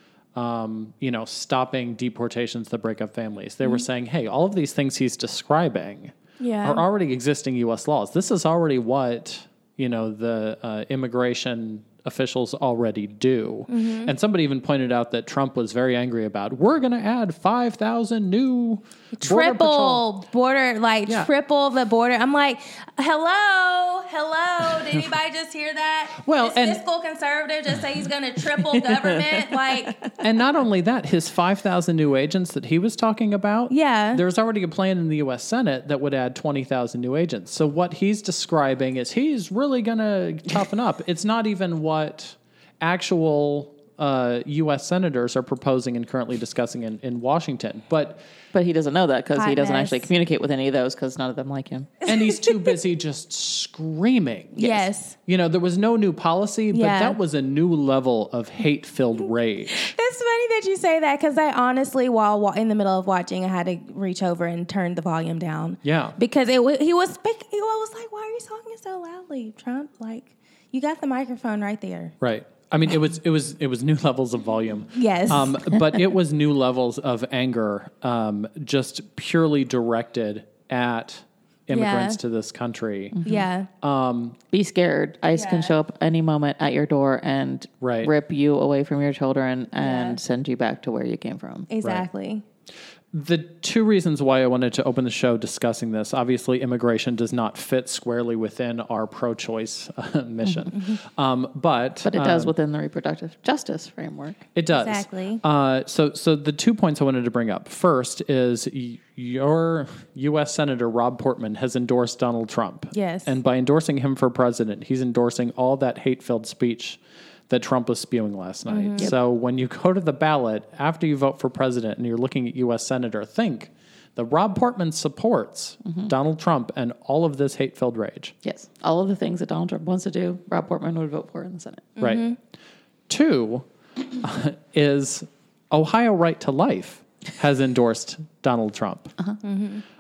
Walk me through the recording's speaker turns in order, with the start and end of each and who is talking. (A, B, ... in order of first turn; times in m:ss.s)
0:00.3-0:20.0 A
0:06.4-0:06.8 B
0:13.7-0:14.1 B
0:19.1-0:30.1 B
0:24.7-0:25.0 A
0:26.2-0:26.8 A
0:28.8-0:30.1 C
0:30.2-0:48.2 A
0:33.7-0:34.2 B
0:48.5-0:52.0 C
0:49.3-0:50.1 B
0:52.1-0:54.6 A
0:54.6-0:54.9 C
0:54.6-0:55.2 B
0:55.2-0:59.9 A
0:56.7-0:57.2 B
0:59.7-1:12.1 B
1:05.8-1:06.2 A
1:12.2-1:23.2 A
1:14.9-1:15.6 B
1:21.7-1:22.2 B
1:23.1-1:23.4 C
1:23.2-1:23.7 B
1:23.8-1:24.4 A
1:24.5-1:31.7 C
1:25.3-1:25.7 B
1:27.8-1:28.1 A
1:29.8-1:30.2 B
1:31.7-1:32.4 B
1:33.1-1:42.5 A
1:40.7-1:41.0 B
1:42.0-1:44.4 C
1:44.5-2:08.3 A
1:44.8-1:45.4 B
1:52.9-1:53.3 B
1:58.7-1:59.1 B
2:08.4-2:11.9 C
2:12.0-2:12.4 B
2:12.0-2:12.2 A
2:13.1-2:19.1 A
2:19.4-2:19.8 B